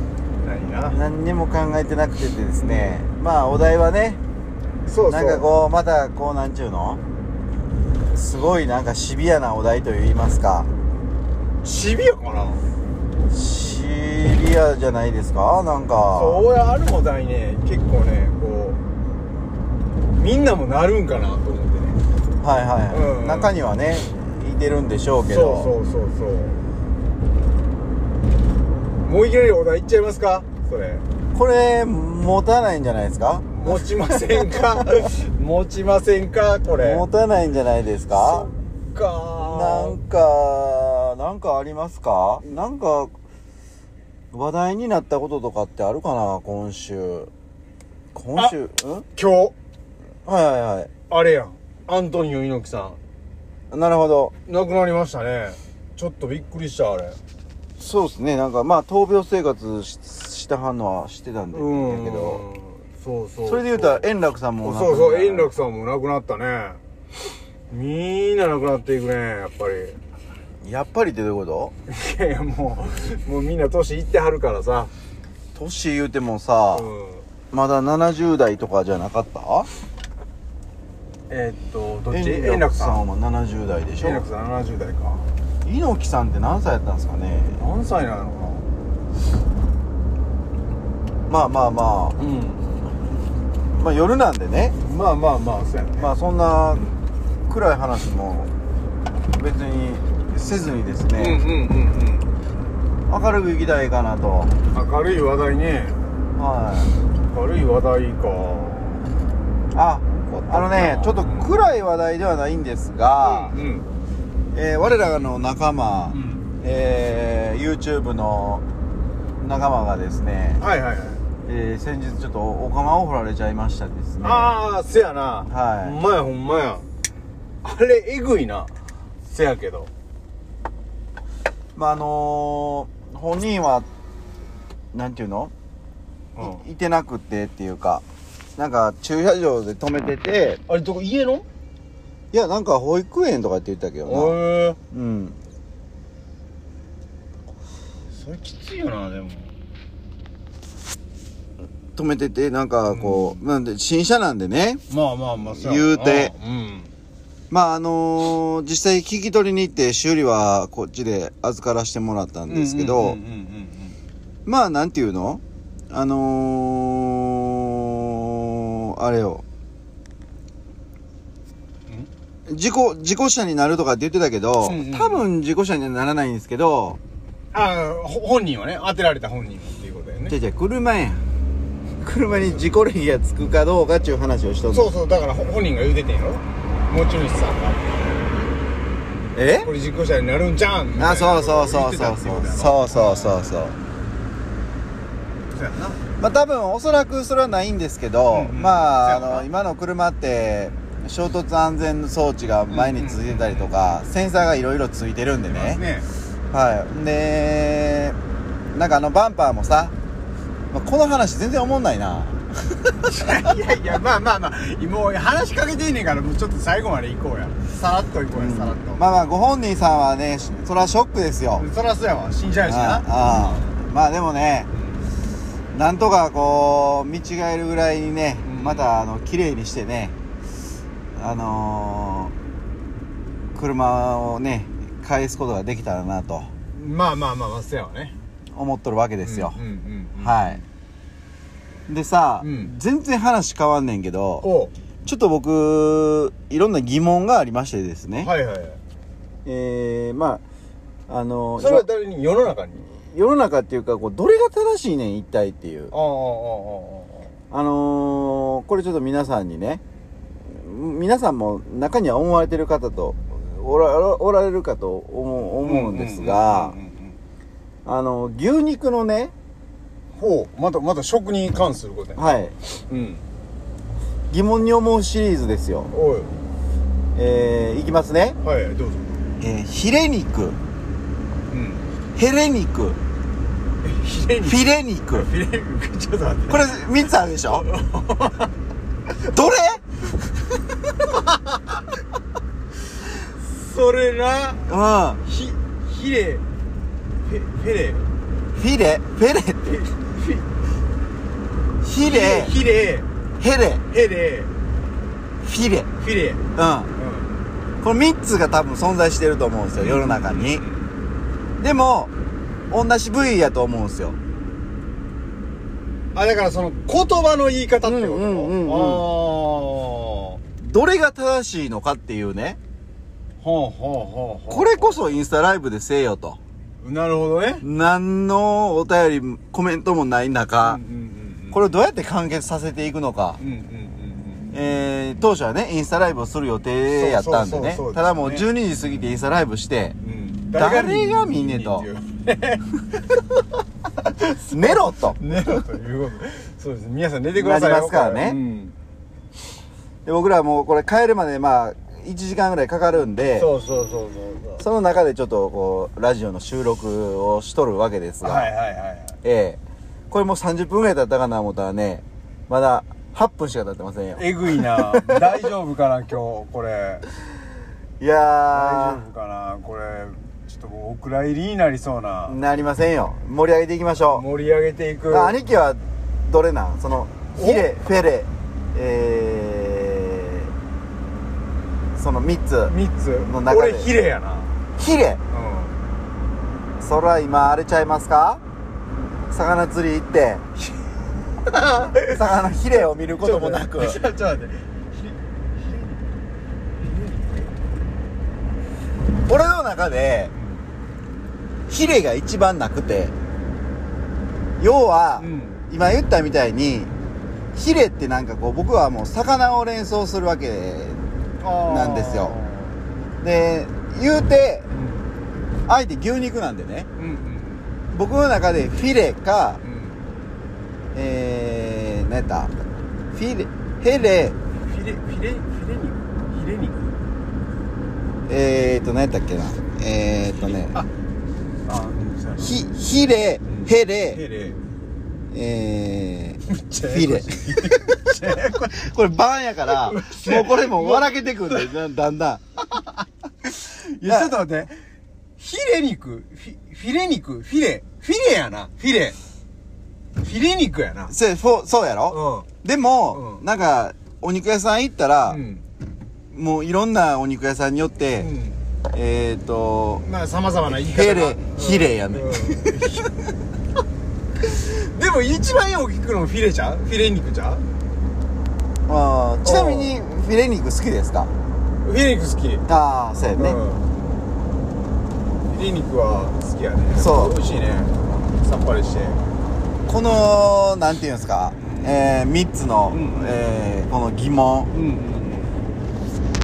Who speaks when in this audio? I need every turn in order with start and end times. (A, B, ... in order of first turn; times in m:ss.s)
0:00.4-0:01.0 A
0:00.9-0:04.2 B
0:02.6-0:03.0 A
0:04.8-0:05.4 A
0:05.1-0:07.0 B
0:08.1-0:10.7 B
0:11.6-0:12.6 A
0:13.3-0:16.4 B
0:16.1-0:18.8 A
0:20.2-0:22.0 A
0:22.4-0:25.7 B
0:22.9-0:23.5 A
0:25.3-0:26.6 A
0:29.0-0:31.0 A
0:31.3-0:34.4 B
0:33.5-0:37.0 A
0:36.8-0:38.5 B
0:38.1-0:40.0 A
0:39.4-0:43.1 B
0:44.3-0:47.3 B
0:48.1-0:49.0 B
0:49.2-0:49.5 A
0:50.2-0:50.9 B
0:51.1-0:53.0 A
0:53.7-0:54.3 B
0:54.4-0:57.2 A
0:57.8-1:02.4 B
1:01.5-1:04.1 A
1:03.4-1:05.5 B
1:04.6-1:06.8 A
1:07.7-1:10.0 A
1:10.6-1:11.7 B
1:11.9-1:14.9 A
1:15.5-1:16.9 B
1:16.7-1:17.2 A
1:17.5-1:19.7 B
1:21.3-1:23.0 A
1:22.1-1:24.2 B
1:24.0-1:25.3 A
1:25.6-1:27.6 B
1:27.6-1:28.6 A
1:31.3-1:32.2 B
1:32.2-1:32.7 A
1:33.7-1:34.8 B
1:34.8-1:36.1 A
1:36.0-1:36.8 B
1:37.5-1:38.5 B
1:39.4-1:41.4 B
1:41.2-1:42.3 A
1:43.1-1:44.5 B
1:44.7-1:46.0 A
1:46.4-1:46.9 B
1:47.3-1:49.0 A
1:49.7-1:53.5 B
1:50.1-1:51.5 A
1:53.2-1:53.8 A
1:54.5-1:58.6 B
1:56.1-1:56.4 A
1:59.4-2:00.6 B
2:00.6-2:01.2 A
2:01.4-2:04.5 B
2:04.2-2:06.8 A
2:05.5-2:06.0 B
2:07.6-2:08.7 A
2:09.2-2:09.9 A
2:11.7-2:13.9 B
2:14.9-2:15.5 B
2:16.4-2:16.6 A
2:16.4-2:18.0 B
2:18.6-2:20.6 B
2:20.7-2:21.4 A
2:22.3-2:24.4 B
2:24.0-2:24.8 A
2:24.9-2:25.4 B
2:28.1-2:29.5 A
2:31.9-2:34.8 B
2:32.9-2:33.4 A
2:34.9-2:36.9 A
2:35.5-2:36.3 B
2:37.5-2:43.2 B
2:42.5-2:44.0 A
2:44.4-2:49.4 B
2:52.5-2:57.0 B
2:54.6-2:55.2 A
2:57.5-3:00.4 A
3:00.3-3:01.2 B
3:02.0-3:04.9 B
3:02.2-3:02.6 A
3:04.7-3:08.2 A
3:09.3-3:09.7 B
3:09.6-3:13.6 A
3:10.9-3:13.8 B
3:15.5-3:16.0 A
3:16.2-3:25.8 B
3:18.3-3:19.5 A
3:22.7-3:24.0 A
3:25.5-3:26.1 A
3:26.5-3:28.2 B
3:28.7-3:29.9 B
3:30.7-3:33.0 B
3:33.0-3:39.0 A
3:38.4-3:41.6 B
3:41.6-3:43.7 A
3:42.7-3:44.7 B
3:45.7-3:50.1 B
3:48.4-3:48.9 A
3:51.2-3:52.3 B
3:53.5-3:56.5 B
3:56.7-3:58.1 A
3:58.5-3:59.6 B
3:59.2-4:00.6 A
4:00.2-4:00.6 B
4:01.9-4:04.4 B
4:02.4-4:02.7 A
4:04.4-4:04.7 A
4:05.0-4:08.3 B
4:08.2-4:08.8 A
4:09.4-4:10.4 B
4:11.1-4:11.8 B
4:11.6-4:12.9 A
4:13.1-4:15.9 B
4:15.9-4:17.3 A
4:17.5-4:19.8 B
4:20.5-4:26.7 B
4:25.6-4:27.2 A
4:27.8-4:29.3 B
4:30.2-4:33.2 A
4:32.2-4:32.5 B
4:34.3-4:35.9 B
4:35.9-4:36.3 A
4:37.1-4:38.4 B
4:38.4-4:39.2 A
4:39.4-4:40.6 B
4:41.5-4:41.8 A
4:42.2-4:43.0 B
4:43.8-4:46.9 A
4:44.4-4:45.3 B
4:46.5-4:47.6 B
4:47.4-4:48.5 A
4:49.1-4:49.8 B
4:51.1-4:51.6 A
4:53.3-4:54.7 A
4:54.7-4:55.2 B
4:55.2-4:56.4 A
4:57.2-4:58.0 A
4:58.5-4:59.8 B
4:59.6-5:00.4 A
5:01.8-5:02.5 B
5:02.0-5:03.1 A
5:03.4-5:03.8 B
5:03.9-5:04.5 A
5:05.4-5:05.9 B
5:06.0-5:06.4 A
5:06.5-5:06.9 B
5:07.0-5:07.3 A
5:07.8-5:10.6 B
5:09.8-5:10.9 A
5:11.6-5:12.1 B
5:12.7-5:14.2 B
5:16.1-5:20.4 A
5:17.8-5:19.0 B
5:20.6-5:22.6 B
5:23.4-5:25.2 A
5:24.5-5:26.4 B
5:26.8-5:27.6 A
5:27.6-5:30.8 B
5:30.6-5:31.6 A
5:31.5-5:33.4 B
5:33.4-5:34.5 A
5:34.5-5:40.0 B
5:36.9-5:38.5 A
5:40.0-5:43.0 A
5:40.5-5:41.9 B
5:44.0-5:48.8 A
5:44.4-5:45.2 B
5:47.3-5:48.4 B
5:50.0-5:53.5 B
5:53.3-5:54.6 A
5:54.6-5:58.5 B
5:58.2-5:59.2 A
5:59.2-5:59.6 B
6:00.1-6:05.2 B
6:04.1-6:07.0 A
6:08.0-6:09.0 B
6:08.5-6:12.4 A
6:12.3-6:14.2 B
6:14.1-6:15.3 A
6:15.1-6:20.5 B
6:17.4-6:17.7 A
6:22.0-6:23.9 B
6:22.6-6:24.6 A
6:24.8-6:25.2 B
6:25.3-6:25.8 A
6:26.8-6:28.4 B
6:29.3-6:30.4 B
6:31.4-6:36.0 A
6:32.1-6:34.0 B
6:36.8-6:37.5 A
6:39.2-6:40.3 B
6:40.4-6:40.6 A
6:41.7-6:43.1 B
6:44.6-6:46.9 B
6:45.2-6:45.6 A
6:47.5-6:51.0 B
6:51.4-6:52.8 A
6:51.6-6:52.4 B
6:53.2-6:54.7 B
6:54.7-6:55.1 A
6:55.6-6:56.9 B
6:57.0-6:57.7 A
6:57.9-6:59.6 B
6:59.6-7:00.0 A
7:00.9-7:02.5 B
7:03.1-7:04.4 B
7:04.6-7:06.9 A
7:08.3-7:10.8 B
7:11.6-7:12.7 A
7:12.4-7:14.2 B
7:13.5-7:14.6 A
7:15.3-7:18.1 B
7:16.5-7:18.9 A
7:18.7-7:22.4 B
7:19.7-7:21.7 A
7:22.7-7:23.0 A
7:23.5-7:24.8 A
7:24.0-7:24.3 B
7:25.4-7:29.2 A
7:30.2-7:31.1 A
7:31.1-7:35.4 B
7:32.1-7:32.5 A
7:33.1-7:33.4 A
7:35.3-7:35.6 A
7:36.3-7:38.3 B
7:38.2-7:38.6 A
7:38.9-7:40.0 B
7:40.0-7:43.1 A
7:40.8-7:43.1 B
7:44.4-7:47.6 A
7:48.9-7:51.3 B
7:49.4-7:49.9 A
7:51.8-7:52.6 A
7:52.7-7:53.6 B
7:53.4-7:53.8 A
7:55.5-7:59.2 A
7:57.0-7:57.3 B
7:59.9-8:04.7 B
8:01.6-8:01.9 A
8:02.9-8:03.4 A
8:04.7-8:05.6 A